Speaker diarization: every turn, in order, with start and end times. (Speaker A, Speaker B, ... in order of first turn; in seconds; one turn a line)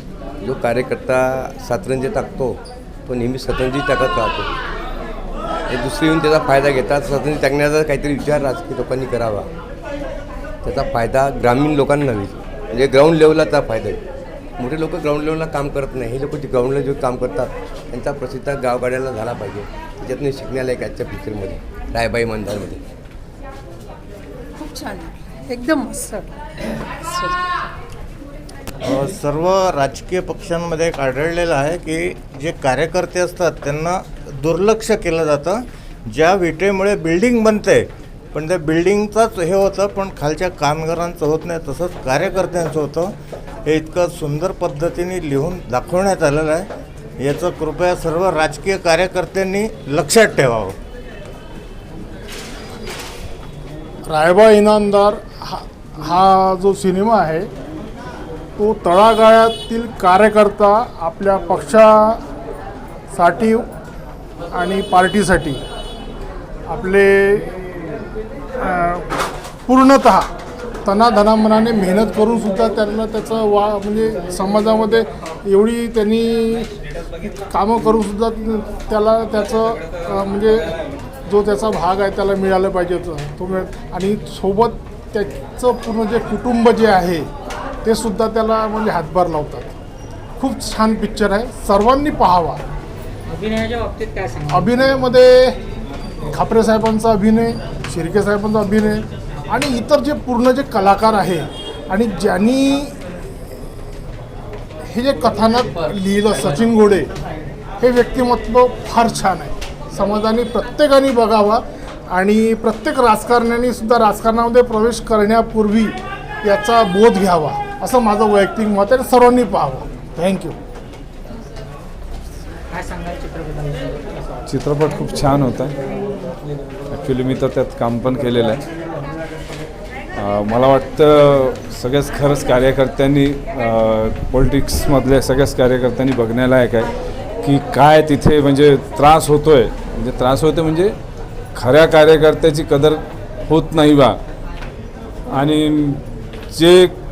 Speaker A: 0.4-4.5
Speaker A: 5.7-9.5
Speaker A: 10.7-14.0
Speaker A: 14.6-22.8
Speaker B: 28.9-43.1
Speaker B: 43.7-46.7
Speaker B: 47.2-50.8
Speaker C: 54.1-57.5
Speaker C: 58.6-62.2
Speaker C: 63.1-63.7
Speaker C: 64.5-65.6
Speaker C: 66.7-67.5
Speaker C: 68.6-69.1
Speaker C: 69.7-70.3
Speaker C: 70.8-76.7
Speaker C: 77.5-80.7
Speaker C: 81.3-87.3
Speaker C: 87.8-89.7
Speaker C: 90.4-92.6
Speaker D: 93.3-94.8
Speaker C: 94.5-95.6
Speaker C: 96.3-103.0
Speaker C: 104.9-107.1
Speaker C: 107.8-120.5
Speaker D: 122.7-123.9
Speaker E: 124.5-125.7
Speaker E: 126.9-128.6
Speaker E: 130.2-136.9
Speaker E: 137.4-140.9
Speaker E: 141.6-144.2
Speaker E: 145.3-146.0
Speaker E: 146.5-146.9